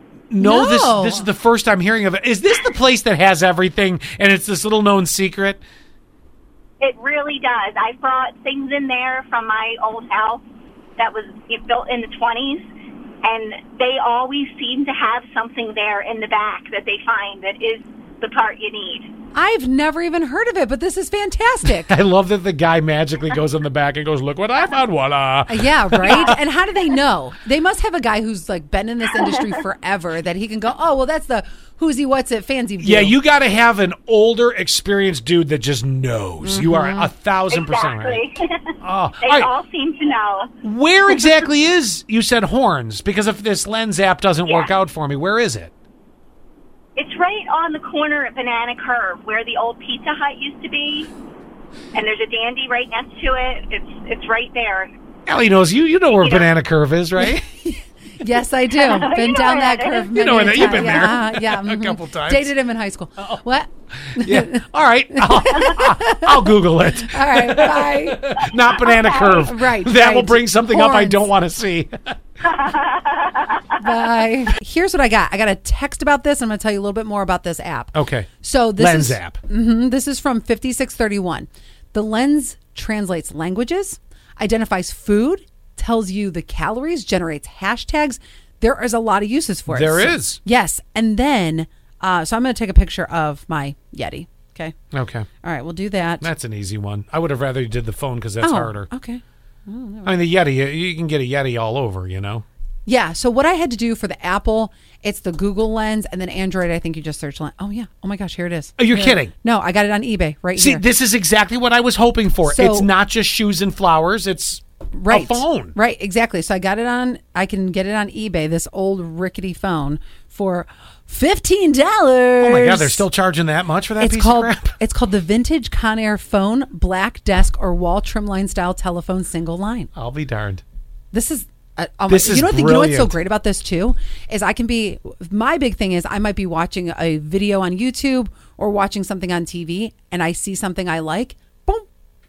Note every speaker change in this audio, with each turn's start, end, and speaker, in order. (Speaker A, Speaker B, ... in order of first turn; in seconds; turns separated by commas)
Speaker A: 0.3-5.6, Speaker B: 0.4-1.3, Speaker C: 6.8-10.4, Speaker C: 11.0-12.7, Speaker C: 13.2-19.1, Speaker B: 19.3-21.9, Speaker A: 21.8-26.4, Speaker B: 25.5-33.2, Speaker A: 32.8-38.2, Speaker B: 36.4-37.1, Speaker C: 37.5-40.5, Speaker A: 38.8-39.5, Speaker A: 40.6-45.7, Speaker C: 47.0-51.1, Speaker C: 51.9-54.9, Speaker A: 55.3-57.5, Speaker C: 56.1-56.5, Speaker B: 57.2-68.4, Speaker C: 58.8-60.6, Speaker A: 60.1-62.5, Speaker A: 64.1-72.2, Speaker C: 69.1-69.4, Speaker B: 69.3-71.3, Speaker C: 72.4-73.8, Speaker B: 73.8-94.8, Speaker A: 78.0-79.4, Speaker A: 89.7-90.4, Speaker A: 94.9-95.3, Speaker B: 95.4-96.2, Speaker A: 96.2-98.9, Speaker B: 98.4-100.1, Speaker A: 100.0-102.5, Speaker B: 102.9-110.8, Speaker A: 108.8-109.3, Speaker A: 110.6-115.8, Speaker B: 112.5-112.9, Speaker B: 114.9-123.1, Speaker A: 122.4-124.7, Speaker B: 124.0-129.9, Speaker A: 129.9-130.6, Speaker B: 131.1-141.9, Speaker A: 132.1-133.2